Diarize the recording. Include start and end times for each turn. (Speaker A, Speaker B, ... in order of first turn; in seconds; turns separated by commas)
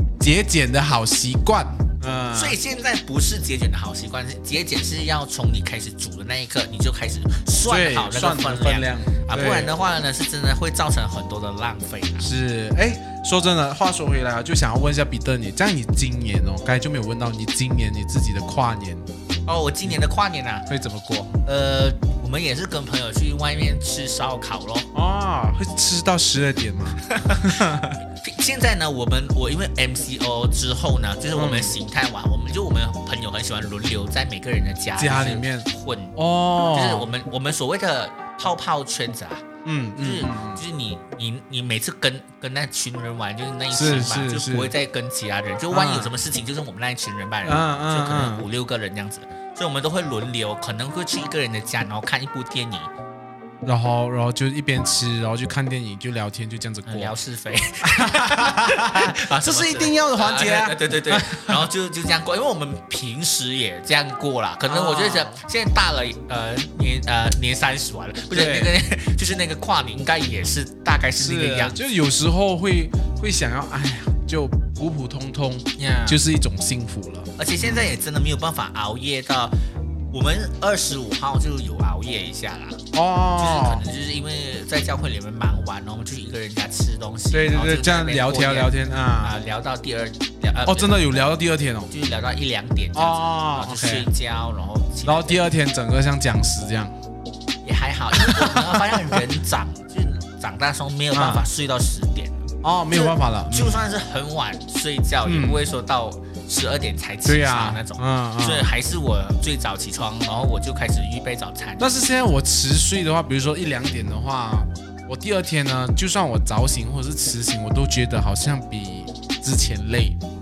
Speaker A: 0.2-2.6, Speaker B: 2.3-12.3, Speaker A: 7.7-9.7, Speaker A: 12.2-19.1, Speaker B: 19.5-20.7, Speaker A: 20.7-21.3, Speaker B: 21.4-24.9, Speaker A: 24.9-28.0, Speaker B: 27.1-36.2, Speaker A: 31.4-31.8, Speaker A: 35.0-37.1, Speaker B: 36.7-39.5, Speaker A: 39.6-40.6, Speaker B: 40.0-52.9, Speaker A: 43.7-44.7, Speaker A: 45.7-46.1, Speaker A: 47.5-48.5, Speaker A: 53.6-57.1, Speaker B: 56.9-71.8, Speaker A: 57.9-61.7, Speaker A: 64.7-65.4, Speaker A: 68.3-68.7, Speaker A: 71.2-77.9, Speaker B: 75.8-76.2, Speaker B: 77.4-79.6, Speaker B: 80.1-82.8, Speaker A: 82.9-83.8, Speaker B: 83.4-91.0, Speaker A: 87.3-89.3, Speaker A: 90.7-91.9, Speaker B: 91.9-95.4, Speaker A: 93.0-94.1, Speaker A: 95.0-96.9, Speaker B: 97.6-112.0, Speaker A: 98.1-99.2, Speaker A: 101.1-101.5, Speaker A: 102.6-103.9, Speaker A: 105.2-105.7, Speaker A: 107.3-108.7, Speaker A: 111.8-120.2